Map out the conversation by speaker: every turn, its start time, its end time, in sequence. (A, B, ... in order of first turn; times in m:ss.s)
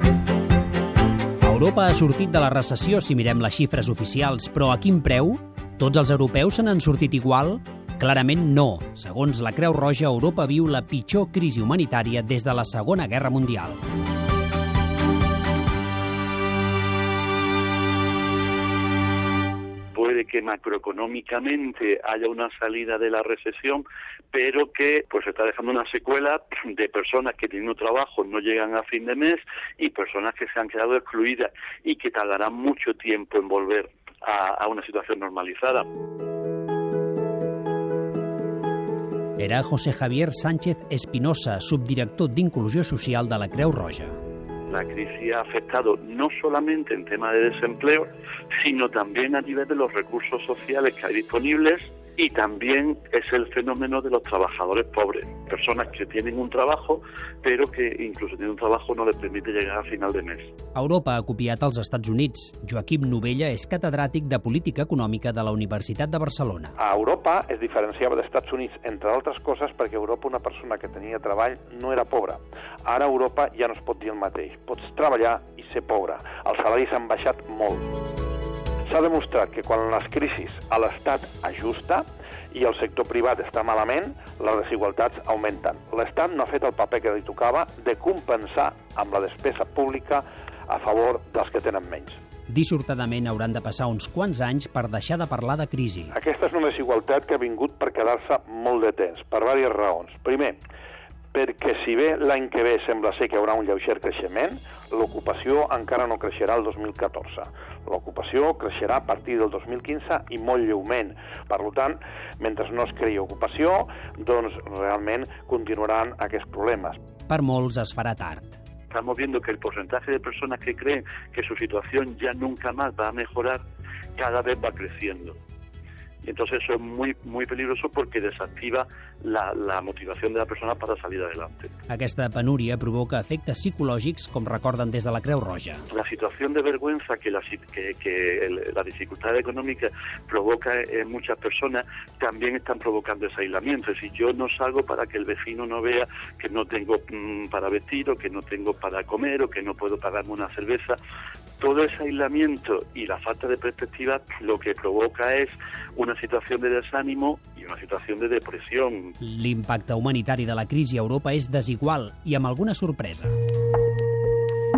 0:01.4-0:13.8 A
0:19.9-0:35.9 B
0:39.4-0:44.1 A
0:44.7-1:00.5 B
1:00.7-1:06.7 A
1:06.8-1:17.9 C
1:18.9-1:32.2 C
1:32.5-1:36.1 A
1:36.1-1:40.6 C
1:41.3-1:57.0 C
1:57.3-1:58.6 A
1:58.9-2:03.6 B
2:04.2-2:05.4 B
2:06.2-2:11.7 B
2:11.9-2:15.8 A
2:15.9-2:31.0 B
2:31.6-2:39.2 B
2:39.2-2:43.3 A